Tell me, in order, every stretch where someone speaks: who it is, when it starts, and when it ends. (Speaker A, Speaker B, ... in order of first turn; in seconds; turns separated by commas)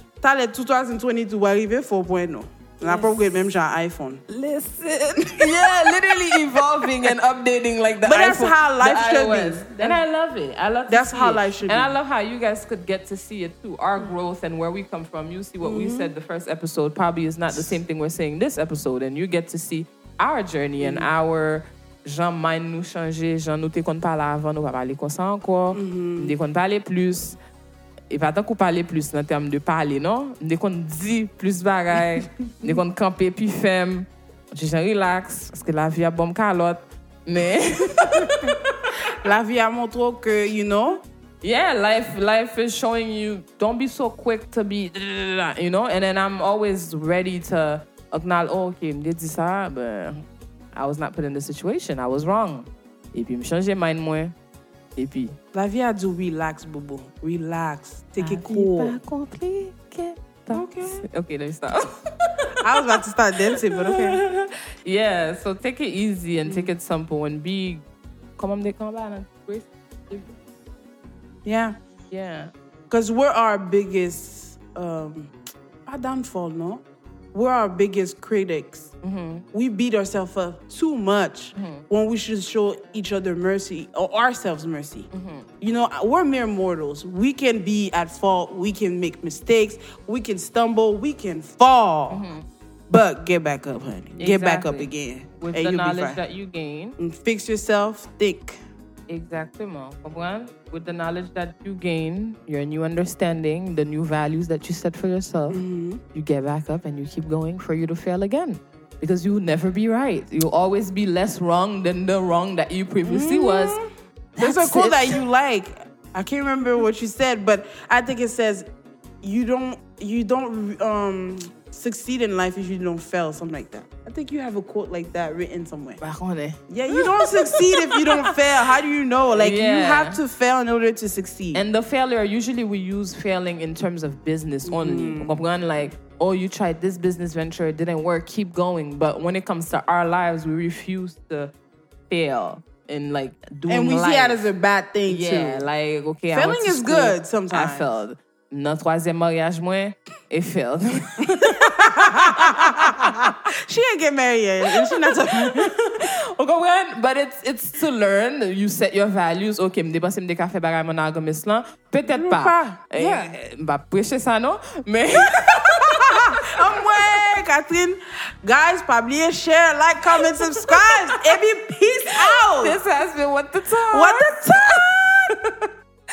Speaker A: 0.2-4.2, Speaker B: 2.8-3.5, Speaker B: 4.3-27.4, Speaker A: 5.2-5.5, Speaker A: 8.1-10.0, Speaker A: 10.9-11.9, Speaker A: 15.6-16.1, Speaker A: 20.8-21.1, Speaker A: 25.7-26.3, Speaker B: 28.1-39.0, Speaker A: 39.1-41.0, Speaker B: 41.4-50.2, Speaker B: 50.7-54.3, Speaker B: 55.0-55.4, Speaker A: 55.5-59.0, Speaker B: 58.2-67.8, Speaker A: 60.5-61.0, Speaker A: 62.6-64.2, Speaker A: 66.4-66.7, Speaker B: 68.4-70.3, Speaker A: 71.4-71.8, Speaker B: 72.1-72.5, Speaker A: 72.9-75.3, Speaker A: 75.8-78.9, Speaker B: 79.0-79.4, Speaker A: 79.5-85.1, Speaker B: 81.5-81.8, Speaker B: 85.1-85.5, Speaker A: 85.6-92.2, Speaker B: 92.1-92.4, Speaker A: 92.9-96.2, Speaker B: 94.2-97.0, Speaker A: 97.0-98.6, Speaker B: 99.1-105.6, Speaker A: 105.5-106.0, Speaker B: 106.1-113.8, Speaker A: 113.0-118.7, Speaker B: 114.4-115.2, Speaker A: 119.2-126.0, Speaker B: 126.0-128.4, Speaker A: 126.7-131.6, Speaker B: 129.4-130.2, Speaker B: 131.5-141.5, Speaker A: 134.6-135.4, Speaker B: 142.1-144.4, Speaker A: 143.7-145.7, Speaker B: 145.1-153.3, Speaker A: 146.3-147.9, Speaker A: 151.3-156.1, Speaker B: 154.8-167.3, Speaker A: 162.1-163.3, Speaker A: 165.8-172.8, Speaker B: 170.2-171.2, Speaker B: 172.1-175.3, Speaker A: 173.9-175.3